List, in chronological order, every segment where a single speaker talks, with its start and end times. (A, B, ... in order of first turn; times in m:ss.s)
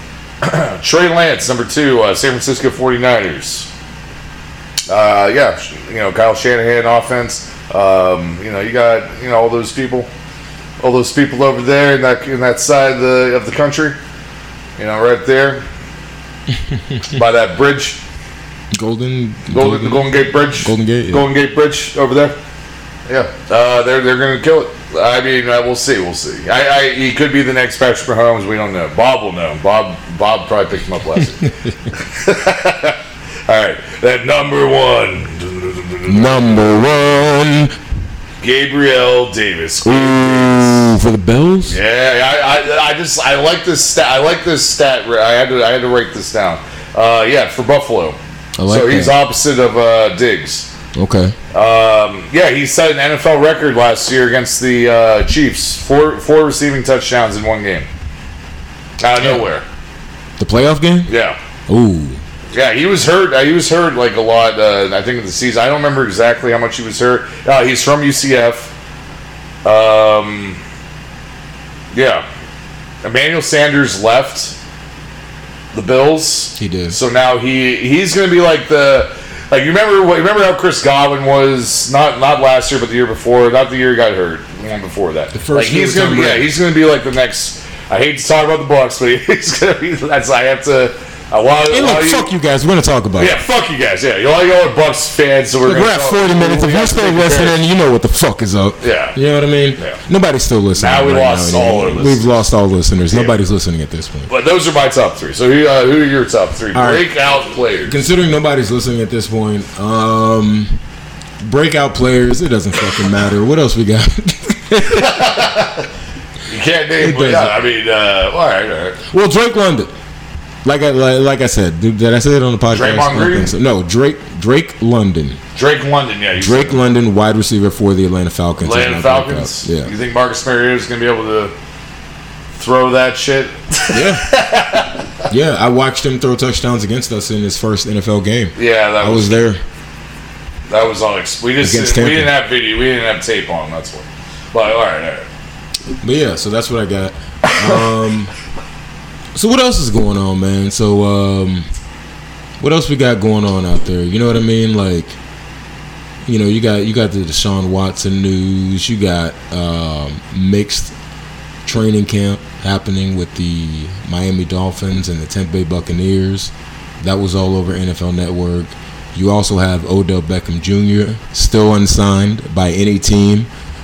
0:00.4-0:03.7 A
0:04.9-0:10.1 A
0:10.8-0:14.0 A
0:14.8-0:15.6 A
0:16.5-0:17.2 B
0:17.1-0:18.0 A
0:18.7-0:21.3 B
0:19.5-0:22.4 A
0:23.1-0:36.9 A
0:31.4-0:31.8 B
0:36.1-0:37.8 B
0:38.4-0:40.9 A
0:39.8-0:41.8 B
0:41.7-0:50.7 A
0:48.6-0:49.2 B
0:51.0-0:51.4 B
0:51.5-0:57.9 A
0:59.0-0:59.6 A
0:59.2-0:59.5 B
1:00.4-1:01.1 B
1:01.1-1:01.4 A
1:01.7-1:02.2 B
1:02.5-1:08.7 A
1:09.6-1:10.6 A
1:11.9-1:12.3 A
1:13.0-1:14.6 A
1:15.7-1:32.3 A
1:16.6-1:17.0 B
1:25.3-1:26.5 B
1:31.7-1:33.4 B
1:33.2-1:37.6 A
1:35.6-1:44.3 B
1:38.8-1:39.2 A
1:40.8-1:42.3 A
1:44.3-1:48.0 A
1:46.7-1:47.2 B
1:47.8-1:50.7 B
1:51.4-1:55.4 B
1:54.9-1:55.9 A
1:56.5-1:59.0 A
1:57.0-1:57.6 B
1:59.1-1:59.9 B
2:00.6-2:05.4 B
2:02.7-2:03.5 A
2:05.6-2:06.8 A
2:06.4-2:09.9 B
2:08.6-2:11.5 A
2:12.6-2:15.0 A
2:13.9-2:14.3 B
2:15.3-2:19.6 B
2:18.6-2:19.4 A
2:20.7-2:25.3 A
2:21.6-2:22.4 B
2:26.0-2:28.3 B
2:27.5-2:27.8 A
2:29.3-2:31.7 B
2:32.6-2:35.2 B
2:36.2-2:40.9 B
2:41.6-2:53.5 B